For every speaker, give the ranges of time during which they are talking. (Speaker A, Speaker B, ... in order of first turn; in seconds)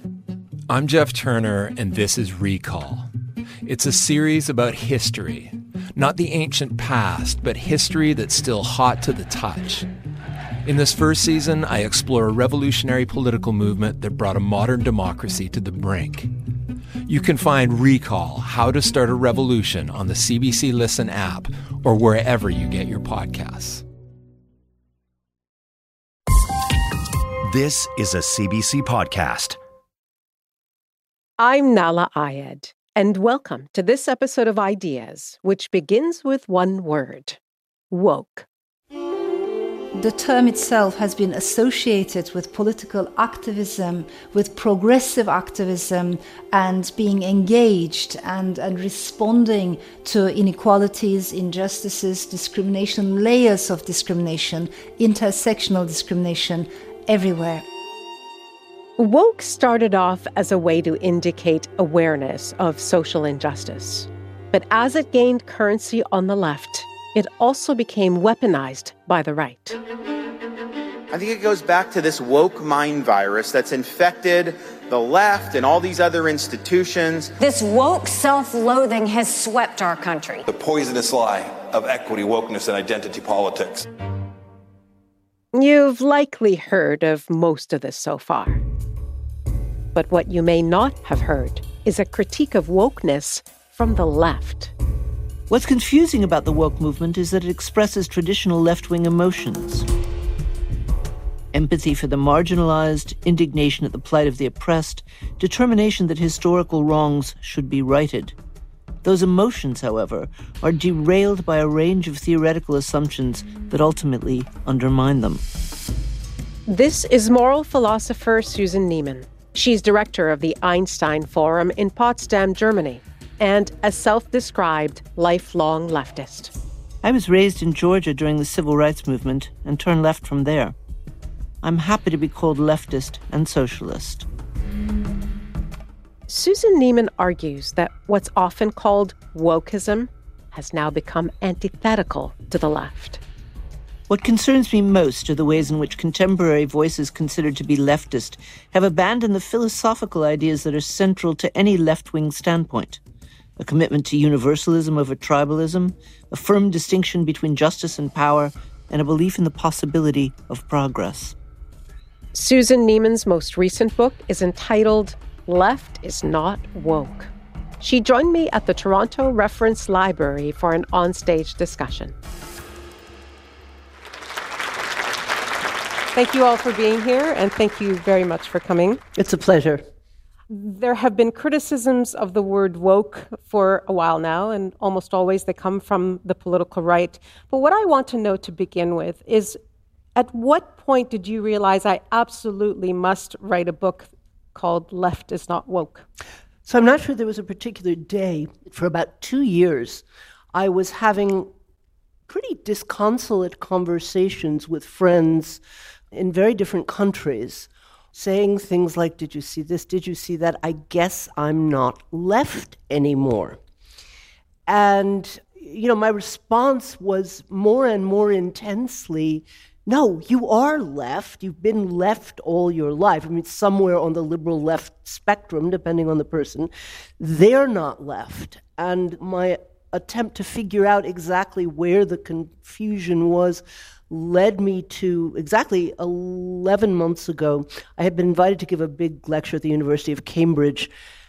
Speaker A: 0.7-3.1, 3.6-9.9, 10.7-16.3, 17.1-23.8
Speaker B: 27.4-29.6
Speaker C: 31.4-37.4, 37.9-38.5, 59.0-69.8, 85.5-88.6, 89.9-94.7, 116.7-126.5, 136.3-143.2, 162.3-172.2, 176.1-179.0, 180.5-189.6, 190.2-196.1
Speaker D: 40.0-57.6
Speaker E: 71.1-77.3
Speaker F: 77.4-80.4
Speaker G: 80.5-83.9
Speaker H: 95.5-99.8, 101.5-108.3, 109.0-115.4, 127.0-130.7, 131.6-134.2, 144.1-153.0, 153.6-161.3
Speaker I: 179.1-179.8, 196.7-201.5, 202.3-205.6, 206.1-213.6, 214.7-240.9